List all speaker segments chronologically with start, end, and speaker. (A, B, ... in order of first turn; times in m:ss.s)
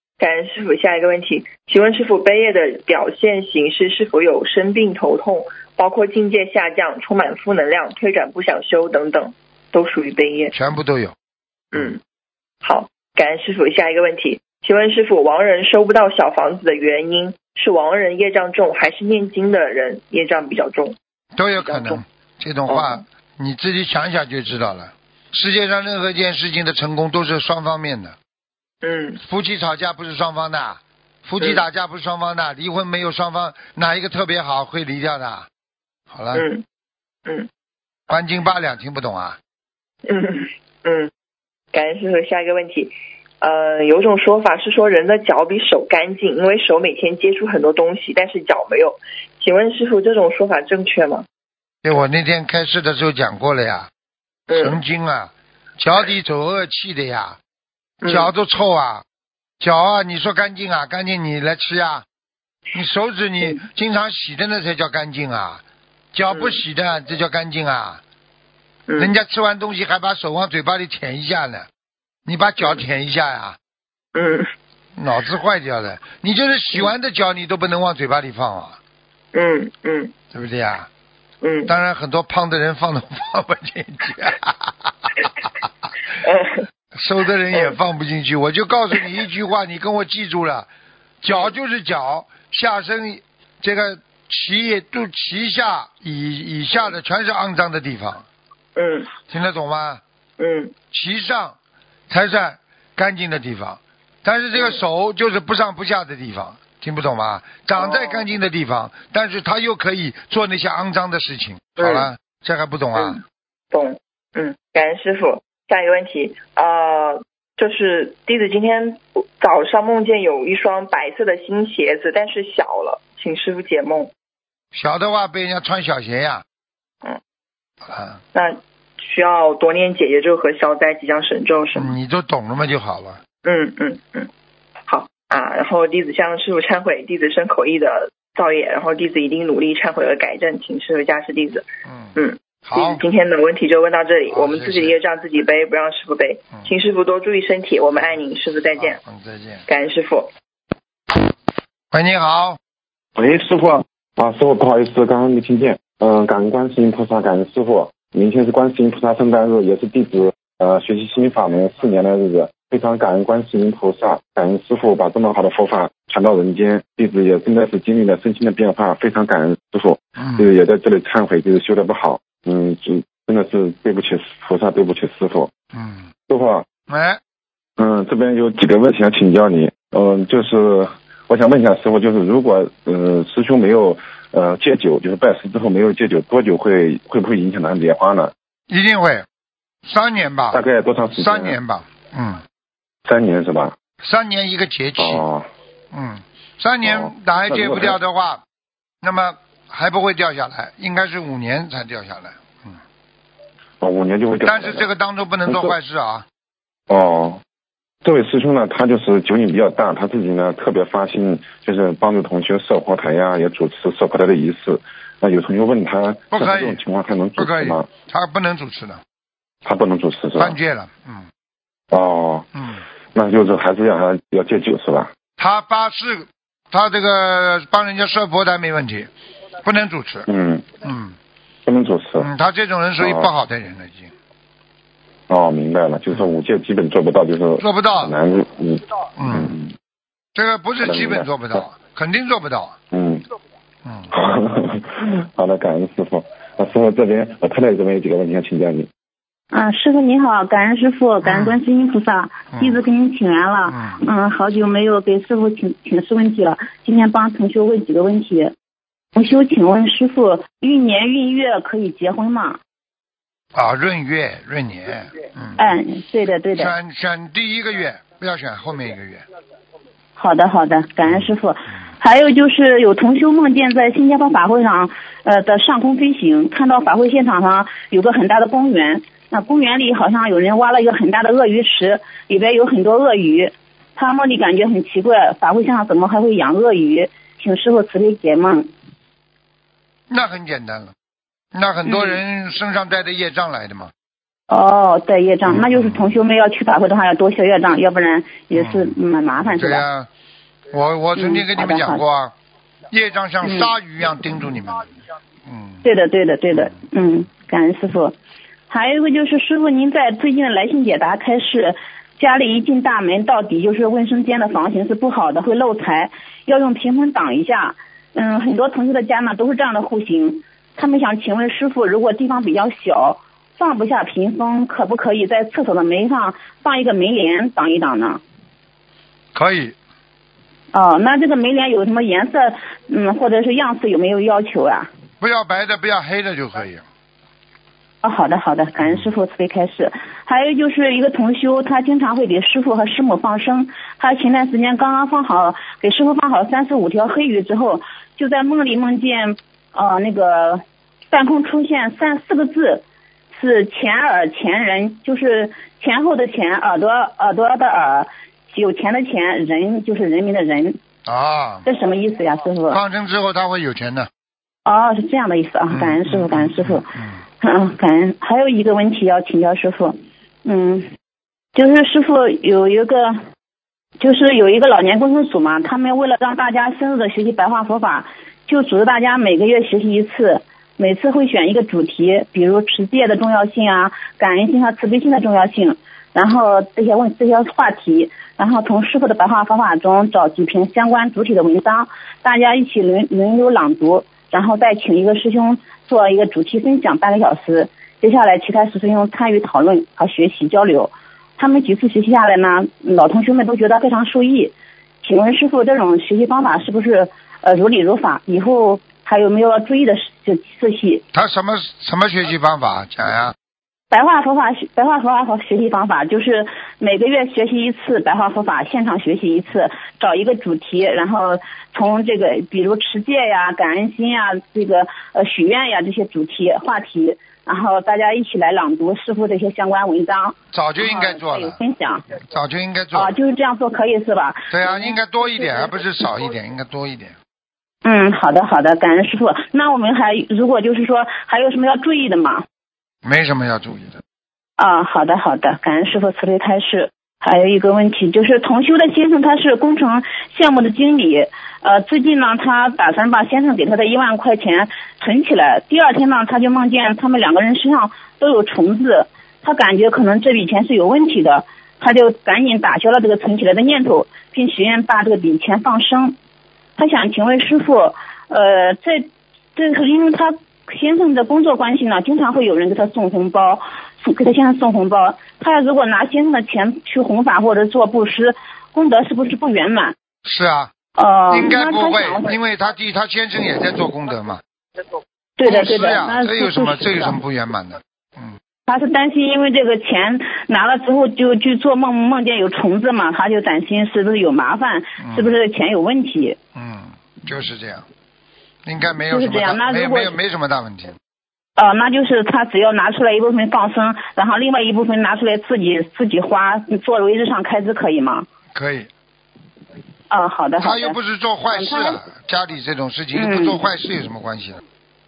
0:00.2-0:10.5 A
0:10.5-0:11.1 B
0:11.7-0:12.0 A
0:12.6-0:21.0 A
0:21.3-0:28.2 B
0:21.6-0:22.0 A
0:22.7-0:23.0 A
0:28.8-0:29.2 A
0:29.2-0:35.5 B
0:36.1-0:36.4 B
0:36.3-0:36.6 A
0:38.1-0:39.4 B
0:40.1-0:41.1 A
0:41.7-0:51.2 A
0:51.8-0:53.9 B
0:54.5-0:54.8 A
0:54.5-0:57.4 B
0:58.0-0:58.3 A
0:58.0-0:59.0 B
0:59.6-1:02.0 B
1:02.7-1:08.0 B
1:06.3-1:06.6 A
1:08.9-1:09.2 A
1:09.0-1:11.7 B
1:12.2-1:13.6 B
1:14.1-1:14.5 A
1:15.0-1:18.8 B
1:19.3-1:20.1 A
1:20.3-1:20.9 B
1:21.4-1:21.7 A
1:21.7-1:25.5 B
1:26.2-1:26.6 A
1:26.9-1:30.7 B
1:31.2-1:38.2 B
1:38.8-1:39.1 A
1:39.3-1:40.0 B
1:40.4-1:40.7 A
1:40.9-1:41.6 B
1:42.1-1:53.2 B
1:47.8-1:48.2 A
1:51.8-1:52.1 A
1:52.9-2:04.1 A
2:04.7-2:06.4 B
2:07.9-2:08.2 B
2:08.3-2:11.9 A
2:11.7-2:13.2 B
2:13.4-2:14.3 A
2:14.9-2:29.0 A
2:21.8-2:23.0 B
2:24.3-2:24.9 B
2:28.8-2:29.6 B
2:29.7-2:30.3 A
2:31.9-2:32.6 B
2:33.2-2:55.5 C
2:50.2-2:50.5 B
2:55.7-2:56.1 B
2:56.3-2:56.6 C
2:56.9-2:57.2 B
2:57.8-3:08.3 C
3:08.7-3:09.2 B
3:09.8-3:10.6 B
3:10.5-3:11.5 C
3:11.2-3:12.4 B
3:13.0-3:13.7 C
3:14.0-3:15.2 B
3:15.0-3:15.4 C
3:15.9-3:18.4 B
3:16.8-3:18.0 C
3:19.0-3:22.8 B
3:23.8-3:24.8 C
3:24.4-3:26.2 B
3:25.5-3:25.7 C
3:26.9-3:27.4 C
3:28.0-3:37.8 C
3:36.3-3:36.8 B
3:37.4-3:39.0 B
3:39.6-3:40.6 C
3:40.4-3:41.3 B
3:41.9-3:42.5 C
3:42.6-3:42.8 B
3:43.1-3:45.1 C
3:45.4-3:49.1 B
3:49.6-3:50.3 B
3:50.3-3:50.7 C
3:50.8-3:51.1 B
3:51.6-3:52.3 C
3:52.2-3:54.1 B
3:53.0-3:53.3 C
3:55.3-3:59.7 C
3:57.6-3:58.1 B
3:59.2-3:59.5 B
4:00.3-4:02.8 B
4:00.8-4:01.6 C
4:02.9-4:03.2 C
4:04.1-4:08.9 C
4:09.5-4:18.5 D
4:11.2-4:11.6 B
4:12.5-4:12.8 B
4:13.7-4:14.0 B
4:19.1-4:22.6 D
4:23.5-4:25.8 B
4:25.6-4:26.7 D
4:26.5-4:29.2 B
4:30.2-4:48.7 D
4:31.0-4:31.3 B
4:50.1-4:50.9 B
4:51.5-4:53.9 B
4:51.8-4:52.2 D
4:54.5-4:59.8 D
4:55.4-4:56.2 B
4:58.5-5:00.1 B
5:00.7-5:02.3 B
5:01.2-5:02.0 D
5:02.9-5:04.9 B
5:03.4-5:03.7 D
5:05.4-5:05.8 B
5:05.8-5:08.1 D
5:08.7-5:28.2 D
5:29.3-5:29.7 B
5:30.7-5:34.9 D
5:35.2-5:36.8 B
5:38.0-6:00.8 D
5:38.8-5:39.1 B
6:01.0-6:01.6 B
6:01.6-6:02.8 D
6:02.7-6:04.1 B
6:04.6-6:06.9 D
6:05.7-6:07.0 B
6:07.4-6:10.9 D
6:11.5-6:13.2 D
6:14.0-6:51.0 D
6:51.1-6:53.3 B
6:53.9-7:12.0 D
7:10.5-7:11.6 B
7:12.2-7:13.1 B
7:12.9-7:15.0 D
7:14.5-7:17.2 B
7:17.8-7:22.4 D
7:23.0-7:24.0 B
7:24.6-7:46.1 D
7:46.8-7:59.9 D
8:00.2-8:00.7 B
8:01.0-8:02.3 D
8:01.3-8:04.4 B
8:05.4-8:07.2 D
8:05.4-8:08.4 B
8:08.7-8:16.4 D
8:15.0-8:15.4 B
8:16.5-8:17.8 B
8:18.6-8:21.0 B
8:19.1-8:20.2 D
8:21.6-8:28.2 D
8:28.5-8:28.9 B
8:30.1-8:31.0 D
8:30.6-8:34.6 B
8:31.5-8:32.0 D
8:33.1-8:33.6 D